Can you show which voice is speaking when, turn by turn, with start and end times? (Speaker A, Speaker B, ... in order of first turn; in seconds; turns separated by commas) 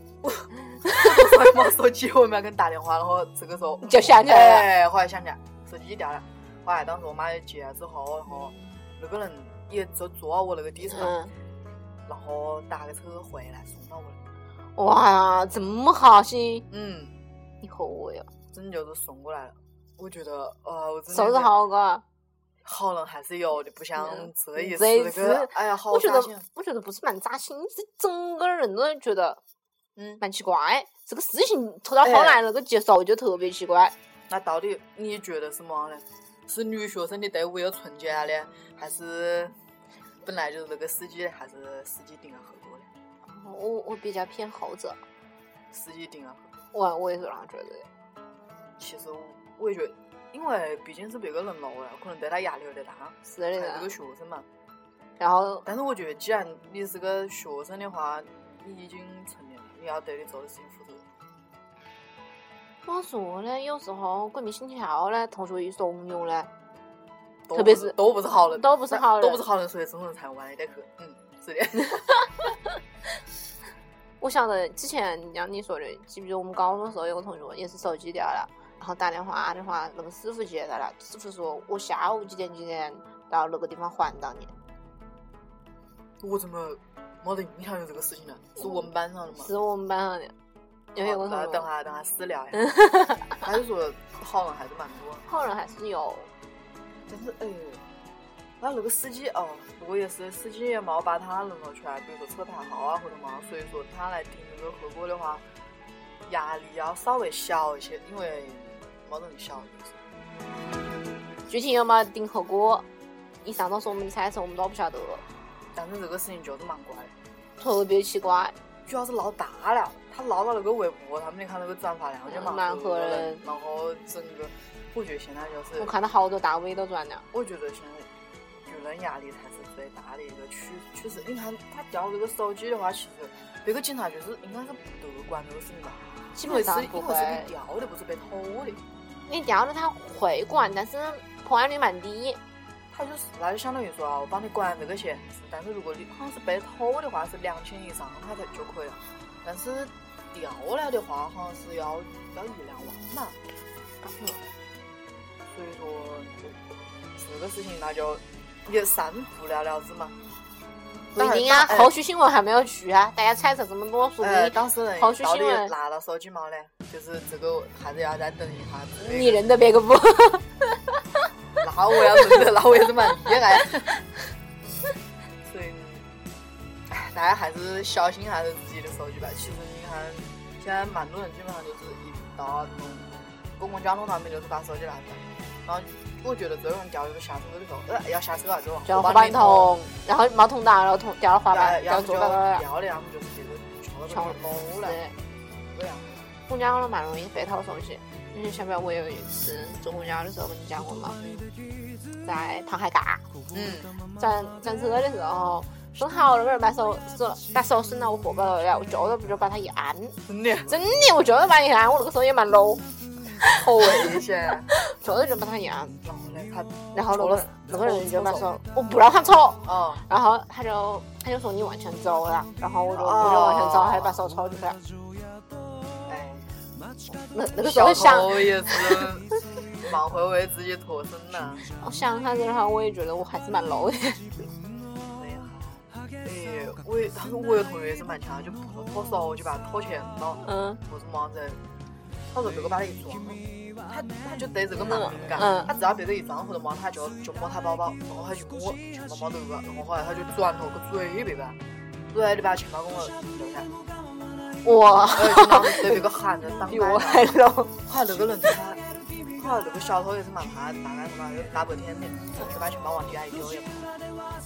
Speaker A: 0.2-11.2, Speaker B: 0.8-1.3, Speaker B: 3.8-4.7, Speaker B: 10.9-11.3, Speaker A: 12.1-14.2, Speaker B: 14.8-16.7, Speaker A: 16.7-17.1, Speaker B: 17.6-18.3, Speaker A: 18.5-21.5, Speaker B: 21.1-22.0, Speaker A: 22.6-26.5, Speaker B: 24.0-29.4, Speaker A: 30.0-30.2, Speaker B: 30.2-33.9, Speaker A: 32.0-32.4, Speaker A: 34.3-39.5, Speaker A: 40.2-42.9, Speaker B: 43.3-45.0, Speaker A: 45.7-46.5, Speaker B: 46.7-47.9, Speaker A: 48.8-54.5, Speaker B: 53.2-54.0, Speaker B: 55.2-55.7, Speaker A: 55.6-61.1, Speaker B: 62.9-66.5, Speaker A: 67.5-72.2, Speaker B: 67.5-69.4, Speaker B: 74.2-84.5, Speaker A: 86.2-89.5, Speaker B: 88.6-90.3, Speaker B: 91.0-91.7, Speaker A: 91.0-92.8, Speaker B: 92.7-93.3, Speaker A: 93.3-95.2, Speaker B: 95.3-96.3, Speaker A: 97.1-97.8, Speaker A: 98.6-105.5, Speaker A: 106.3-110.0, Speaker B: 111.5-112.9, Speaker B: 113.4-115.2, Speaker A: 115.7-117.1, Speaker B: 117.6-118.5, Speaker A: 118.9-125.9, Speaker B: 122.3-123.4, Speaker B: 125.8-127.2, Speaker A: 127.3-128.1, Speaker A: 128.7-138.8, Speaker B: 136.3-137.5, Speaker B: 139.3-142.4, Speaker A: 142.9-153.4, Speaker B: 154.0-154.4, Speaker A: 155.5-156.6, Speaker A: 157.2-160.2, Speaker A: 161.2-161.9, Speaker B: 161.2-165.7, Speaker A: 164.2-169.4, Speaker B: 169.0-170.8, Speaker A: 171.6-174.0, Speaker A: 175.4-176.1, Speaker A: 176.9-189.8, Speaker B: 188.9-192.6, Speaker A: 191.5-195.0, Speaker B: 194.1-195.2, Speaker A: 195.7-196.3, Speaker B: 196.5-201.2, Speaker A: 201.2-201.5, Speaker B: 202.2-203.2, Speaker A: 203.5-204.0, Speaker B: 204.2-210.2, Speaker A: 210.3-210.7, Speaker B: 210.7-212.8, Speaker A: 213.4-214.7, Speaker B: 213.4-214.2, Speaker B: 214.7-216.0, Speaker A: 216.0-218.5, Speaker B: 216.9-224.8, Speaker A: 219.6-220.1, Speaker A: 222.9-224.2, Speaker A: 226.1-226.5, Speaker B: 227.3-229.1, Speaker A: 227.6-229.3, Speaker A: 229.8-231.7, Speaker B: 231.8-234.5, Speaker A: 235.1-241.6, Speaker B: 240.4-240.8, Speaker A: 242.3-251.6, Speaker B: 244.8-245.7, Speaker A: 252.1-253.7, Speaker B: 254.6-256.0, Speaker A: 255.2-257.3, Speaker B: 256.6-257.7, Speaker A: 257.9-258.8, Speaker A: 259.4-263.9